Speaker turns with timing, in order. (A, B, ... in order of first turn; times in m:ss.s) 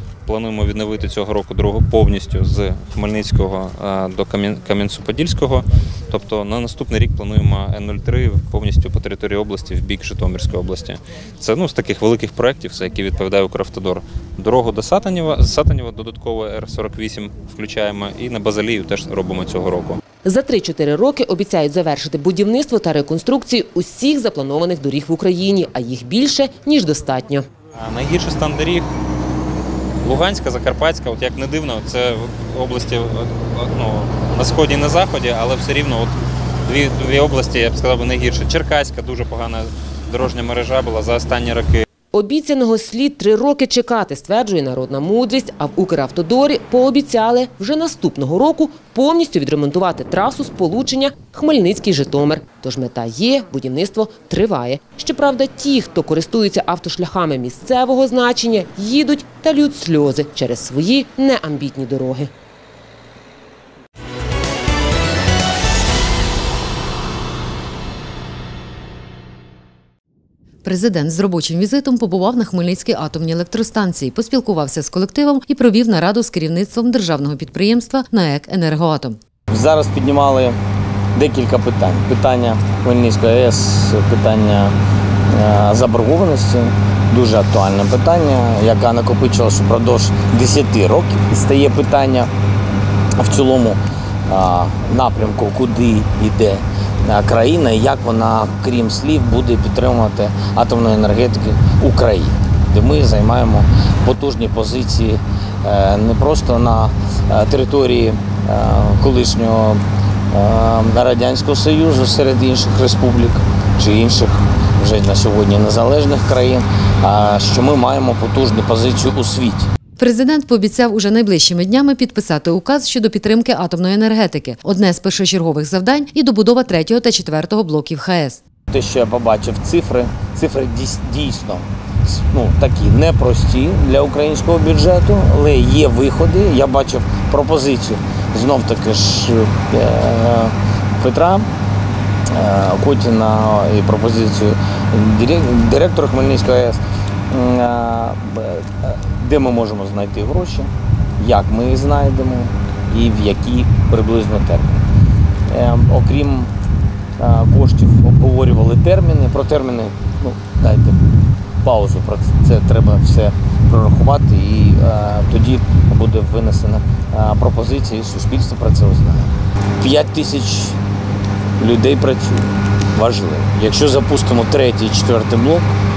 0:00.3-0:20.0 A
0:20.2-0:27.5 B
0:27.8-0:28.9 A
0:30.0-0:41.8 A
0:42.1-1:02.3 B
1:10.6-1:19.2 C
1:19.5-1:20.6 D
1:21.2-1:24.8 D
1:25.3-1:32.3 D
1:33.2-1:49.8 D
1:50.3-1:59.7 D
2:00.0-2:08.4 C
2:08.7-2:21.5 D
2:22.3-2:26.8 D
2:27.3-2:34.8 D
2:35.5-2:36.5 D
2:37.2-2:41.0 D
2:41.6-2:50.8 D
2:51.6-2:55.7 D